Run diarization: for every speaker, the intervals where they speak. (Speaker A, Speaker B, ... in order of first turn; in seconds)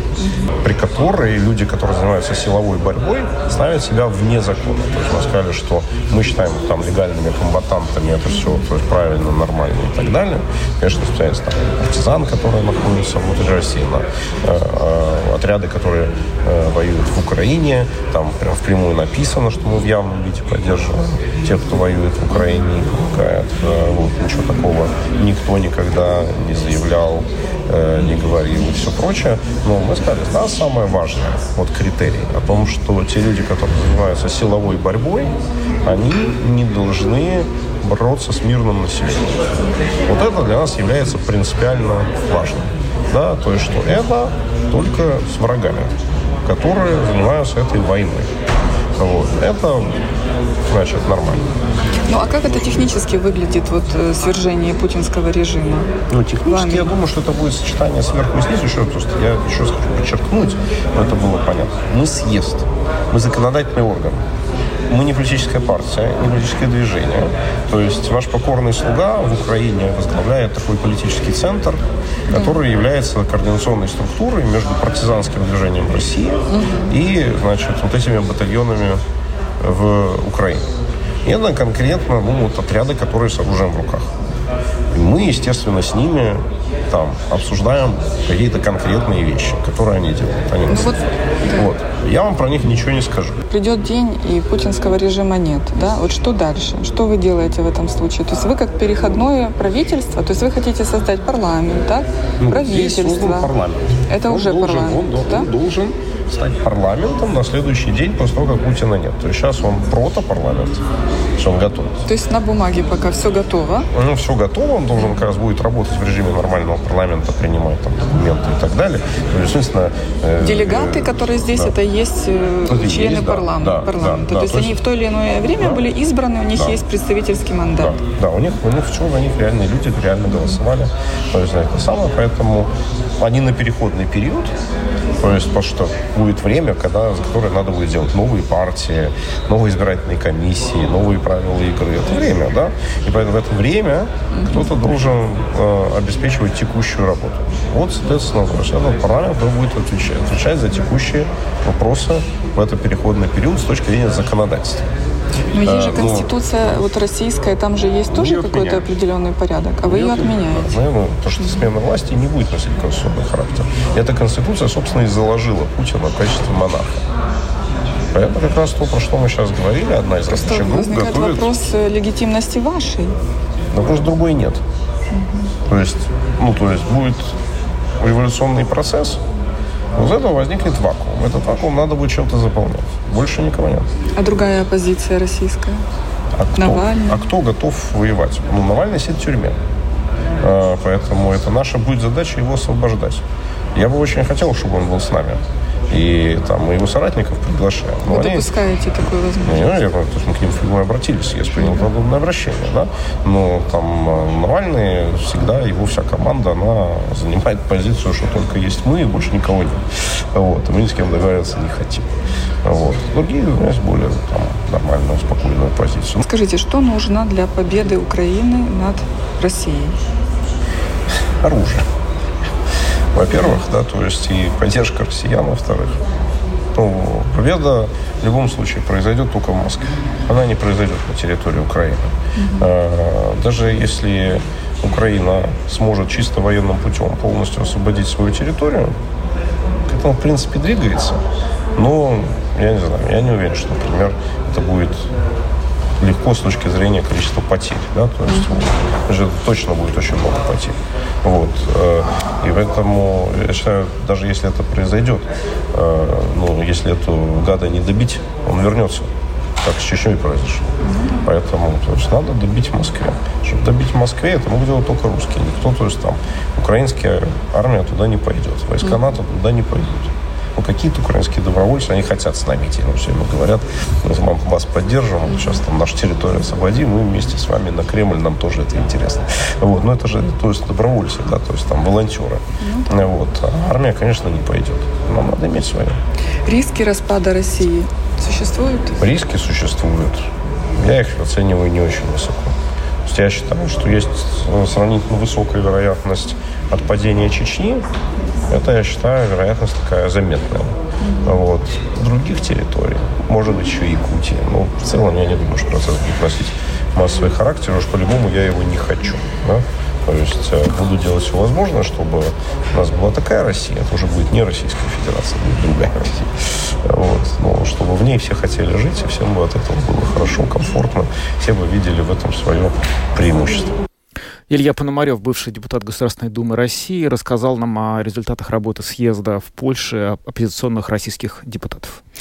Speaker A: 0.2-0.5, 52.1-55.9, 56.4-56.9, 72.3-72.6, 76.5-76.9, 90.7-91.7, 93.5-103.5, 104.1-105.5, 112.1-113.9, 120.4-128.0, 144.3-144.8, 155.5-160.8, 161.4-161.7, 170.1-173.1, 175.1-175.5, 184.2-185.8, 186.6-187.3, 198.1-199.8, 201.6-201.9, 216.2-220.0, 223.3-223.6, 232.4-232.7, 248.3-248.6, 260.8-261.2, 275.3-275.6, 282.6-283.1, 286.5-289.0, 301.0-301.4
Speaker B: 0.6-39.4, 40.0-45.9, 46.4-48.3, 49.0-50.0, 50.7-51.5, 56.1-64.2, 64.9-79.0, 79.6-80.7, 81.2-84.1, 84.9-91.0, 91.5-93.4, 102.4-110.8, 111.4-112.0, 113.9-121.7, 122.7-124.8, 125.5-125.8, 126.5-126.8, 127.8-134.5, 135.2-154.8, 155.6-156.3, 158.1-158.8, 159.8-167.1, 168.1-171.4, 173.7-174.6, 175.7-177.3, 178.0-179.2, 179.9-183.9, 186.4-189.6, 190.4-193.2, 193.7-198.5, 199.4-212.1, 212.6-216.2, 221.4-221.9, 223.1-226.0, 226.7-238.9, 239.9-241.2, 241.8-245.1, 246.0-259.1, 259.6-286.0, 289.0-292.6, 293.1-297.9, 298.5-323.8
Speaker C: 324.5-332.0